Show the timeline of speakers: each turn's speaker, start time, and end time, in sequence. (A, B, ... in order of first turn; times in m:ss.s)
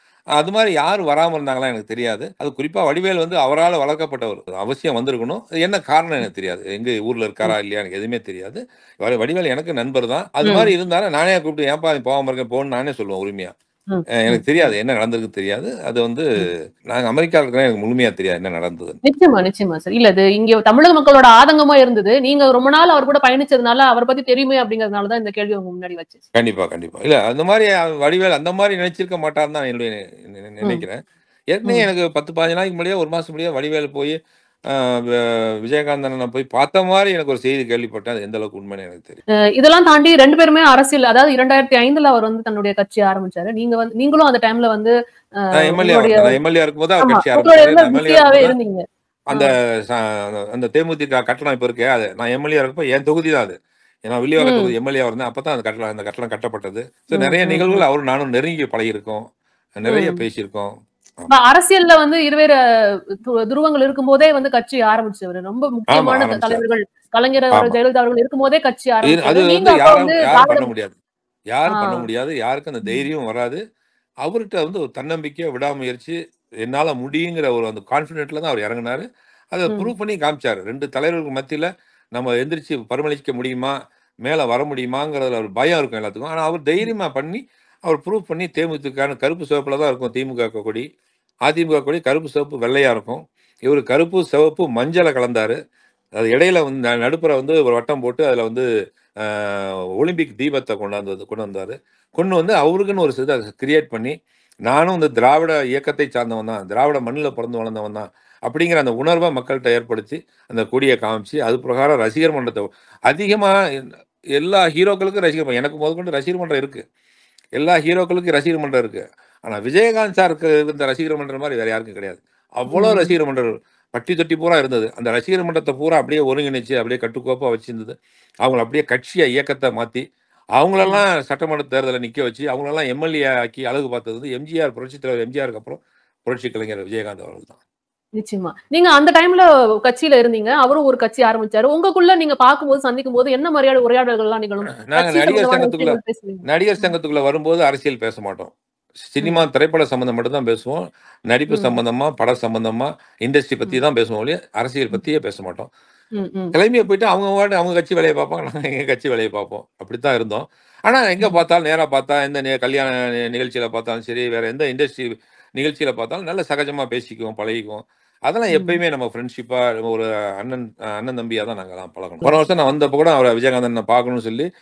0:00.4-0:13.5 A
0:10.4-0:10.7 B
0:13.9-0:14.5 B
0:14.1-0:19.0 A
0:19.0-0:26.2 B
0:26.4-0:31.0 A
0:31.5-0:34.2 A
0:34.7-0:39.2 A
0:39.6-0:46.4 B
0:45.5-0:48.6 A
0:47.0-0:49.5 B
0:49.3-0:59.2 A
0:54.4-0:54.7 B
0:57.1-0:57.8 B
0:59.8-1:00.7 A
0:59.9-1:00.2 B
1:01.3-1:02.6 B
1:03.3-1:10.7 B
1:05.9-1:06.6 A
1:09.0-1:11.0 A
1:11.5-1:13.6 A
1:11.7-1:12.1 B
1:14.2-1:23.7 A
1:24.2-1:30.8 A
1:31.5-1:35.6 A
1:36.2-1:38.7 A
1:39.2-1:44.1 A
1:44.7-1:53.6 A
1:54.4-1:56.8 A
1:57.6-2:10.0 A
2:02.7-2:03.2 B
2:10.6-2:17.6 A
2:18.2-2:26.9 B
2:24.7-2:35.7 A
2:31.5-2:31.8 B
2:36.2-2:36.6 B
2:36.5-2:54.5 A
2:48.5-2:48.8 B